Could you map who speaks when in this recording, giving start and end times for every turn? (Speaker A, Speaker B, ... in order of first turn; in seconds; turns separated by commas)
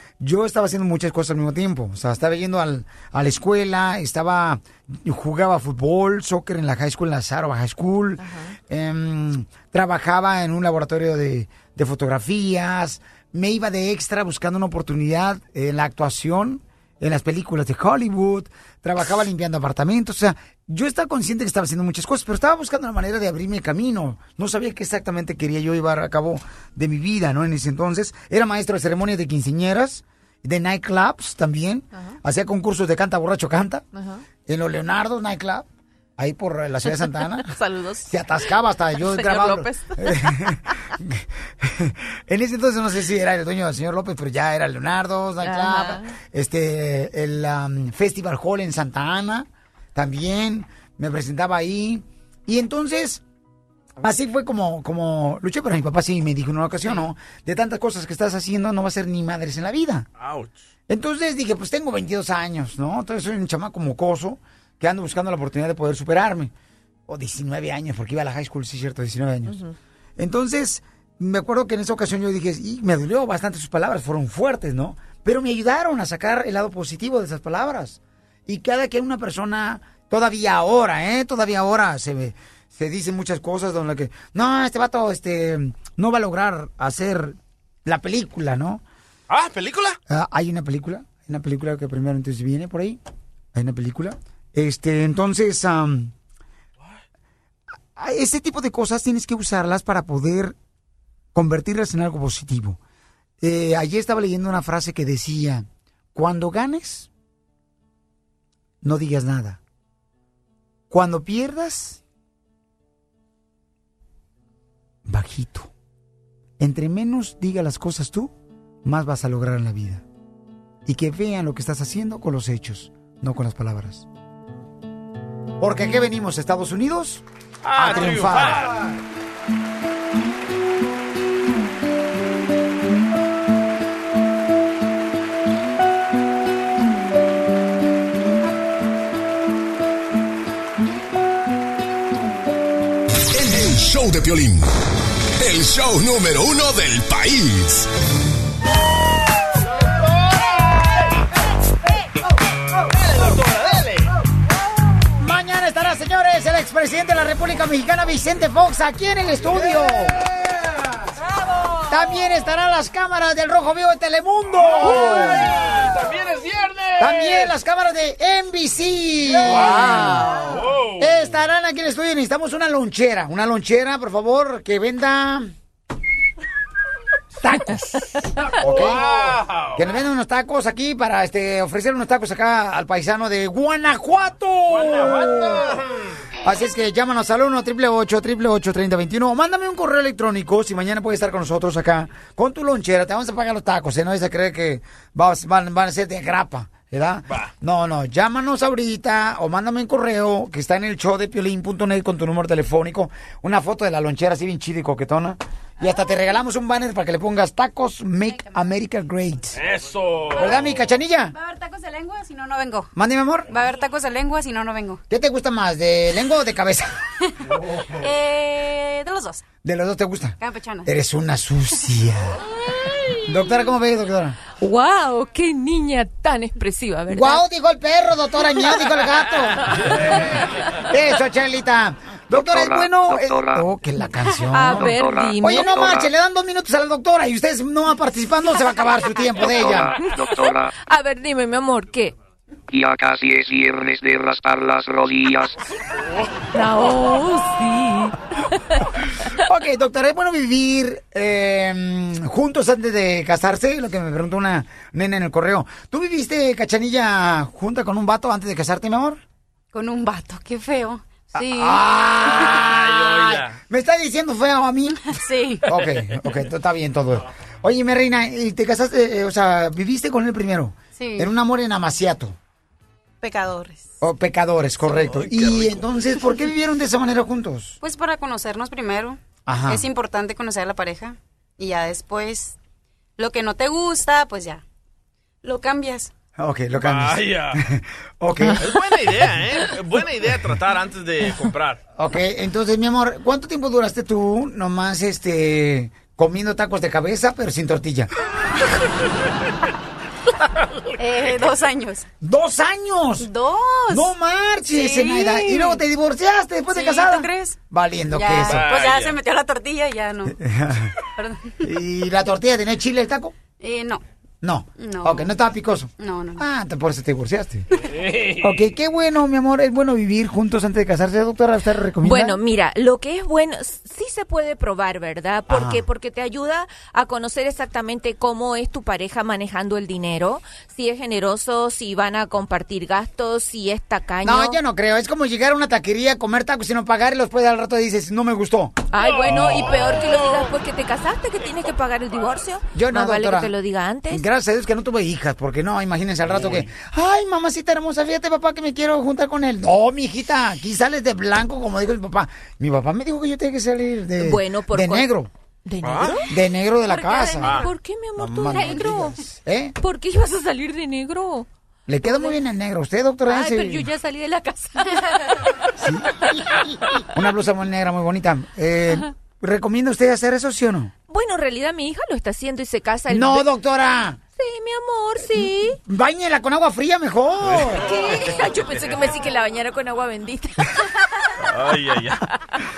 Speaker A: 0.2-33.8, Speaker B: 33.9-34.2, Speaker A: 34.5-35.6, Speaker A: 36.2-37.5, Speaker B: 37.1-38.1, Speaker A: 38.1-53.2, Speaker B: 39.0-40.3, Speaker B: 45.4-46.1, Speaker A: 54.0-60.1, Speaker C: 60.2-60.5, Speaker A: 60.9-66.5, Speaker A: 67.1-69.6, Speaker B: 69.5-69.8, Speaker A: 70.2-88.8, Speaker C: 89.3-90.0, Speaker A: 90.1-93.0, Speaker A: 93.5-96.1, Speaker A: 98.0-100.6, Speaker A: 101.3-102.8, Speaker A: 103.4-107.1, Speaker A: 108.8-109.6, Speaker A: 110.9-112.0, Speaker A: 115.0-115.7, Speaker A: 116.6-118.3, Speaker A: 118.8-120.0, Speaker A: 120.8-124.1, Speaker A: 125.6-127.2, Speaker C: 127.6-128.8, Speaker A: 127.8-128.8, Speaker D: 143.3-144.7, Speaker D: 145.4-147.9, Speaker C: 149.8-151.2, Speaker C: 152.9-154.1, Speaker A: 155.2-160.2, Speaker A: 161.9-165.6, Speaker C: 164.6-167.5, Speaker A: 167.0-170.4, Speaker C: 169.4-171.3, Speaker A: 171.0-175.5, Speaker A: 177.4-179.2, Speaker C: 178.6-179.9, Speaker A: 179.8-185.8, Speaker C: 184.7-185.9, Speaker A: 186.4-209.6, Speaker E: 208.3-208.6, Speaker C: 209.5-210.7, Speaker A: 210.3-211.3, Speaker E: 211.3-212.9, Speaker A: 212.9-213.5, Speaker E: 213.5-215.0, Speaker A: 215.1-217.0, Speaker E: 218.0-219.4, Speaker A: 219.6-222.4, Speaker E: 220.4-220.9, Speaker A: 223.3-224.4, Speaker F: 224.6-227.4, Speaker A: 227.1-230.0, Speaker A: 230.9-239.9, Speaker G: 232.3-233.7, Speaker F: 234.5-235.8, Speaker G: 234.8-236.1, Speaker G: 239.4-240.7, Speaker F: 240.8-242.1, Speaker G: 242.7-245.6, Speaker F: 246.5-248.5, Speaker A: 249.3-259.2, Speaker E: 259.7-261.9, Speaker A: 261.3-265.0, Speaker C: 262.6-263.6, Speaker E: 265.1-265.7, Speaker A: 265.6-272.4, Speaker E: 271.0-271.3, Speaker E: 273.2-273.9, Speaker A: 274.0-277.8, Speaker C: 274.8-275.9, Speaker E: 277.8-282.6, Speaker A: 279.5-279.8, Speaker E: 283.2-284.6, Speaker E: 285.4-286.1, Speaker A: 286.4-288.7, Speaker C: 286.7-287.6, Speaker C: 288.6-291.8, Speaker A: 292.0-298.1, Speaker E: 301.0-302.1, Speaker C: 301.1-301.6, Speaker A: 302.2-303.3, Speaker E: 303.2-305.8, Speaker A: 303.9-308.7, Speaker E: 306.7-307.6, Speaker E: 308.1-310.4, Speaker C: 308.3-309.2, Speaker A: 310.3-310.9, Speaker E: 311.2-311.7, Speaker A: 311.6-313.4, Speaker E: 313.6-314.0, Speaker A: 314.4-317.7, Speaker E: 314.8-315.3, Speaker E: 316.0-316.4, Speaker C: 317.9-318.6, Speaker A: 318.4-322.4, Speaker F: 322.0-334.6, Speaker A: 325.5-325.8, Speaker A: 334.2-338.8, Speaker F: 338.9-344.2, Speaker C: 339.1-340.1, Speaker A: 342.7-343.5, Speaker A: 344.1-355.3, Speaker C: 346.3-346.6, Speaker F: 354.2-355.1, Speaker F: 355.7-356.3, Speaker C: 355.8-356.2, Speaker A: 356.3-359.8, Speaker E: 356.8-357.5, Speaker C: 357.4-357.7, Speaker F: 357.6-359.2, Speaker F: 359.8-361.5, Speaker A: 361.9-363.9, Speaker F: 362.0-362.4, Speaker F: 363.3-365.6, Speaker A: 365.8-370.9, Speaker F: 371.1-373.5, Speaker A: 373.1-374.2, Speaker F: 374.4-375.8, Speaker A: 375.4-378.1, Speaker C: 377.4-379.0, Speaker F: 377.8-381.1, Speaker C: 381.5-382.2